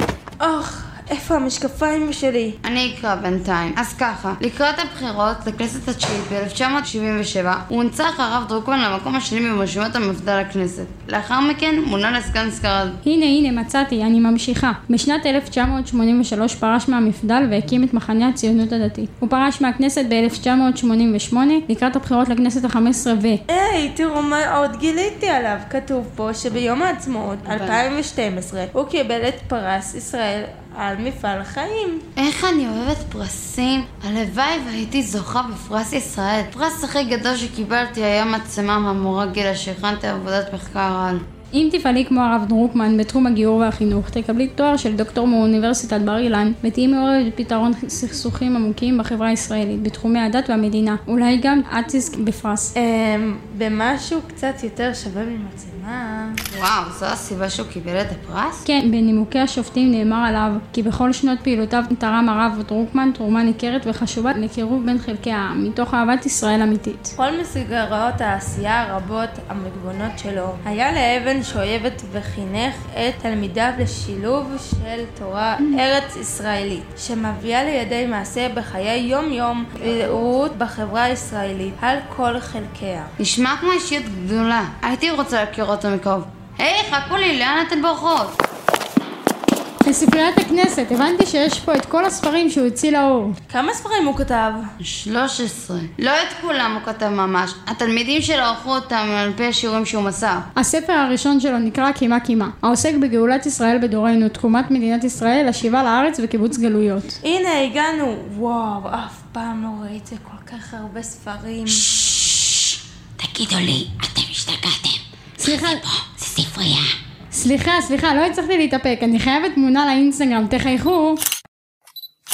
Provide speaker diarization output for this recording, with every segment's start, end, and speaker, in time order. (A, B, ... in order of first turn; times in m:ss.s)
0:00.4-0:02.6 A
0:02.6-0:13.0 B
0:13.0-0:23.4 C
0:23.5-0:32.0 A
0:27.4-0:27.8 B
0:32.2-0:41.2 B
0:41.5-0:52.7 C
0:52.8-0:56.4 A
0:56.5-0:58.6 B
0:58.6-1:07.1 C
1:07.2-1:23.1 A
1:23.2-1:28.4 B
1:29.8-1:33.3 C
1:33.5-1:34.7 A
1:34.8-1:40.5 B
1:40.6-1:47.2 C
1:47.2-1:51.8 A
1:51.7-1:56.9 B
1:55.4-1:55.8 C
1:57.3-2:01.2 C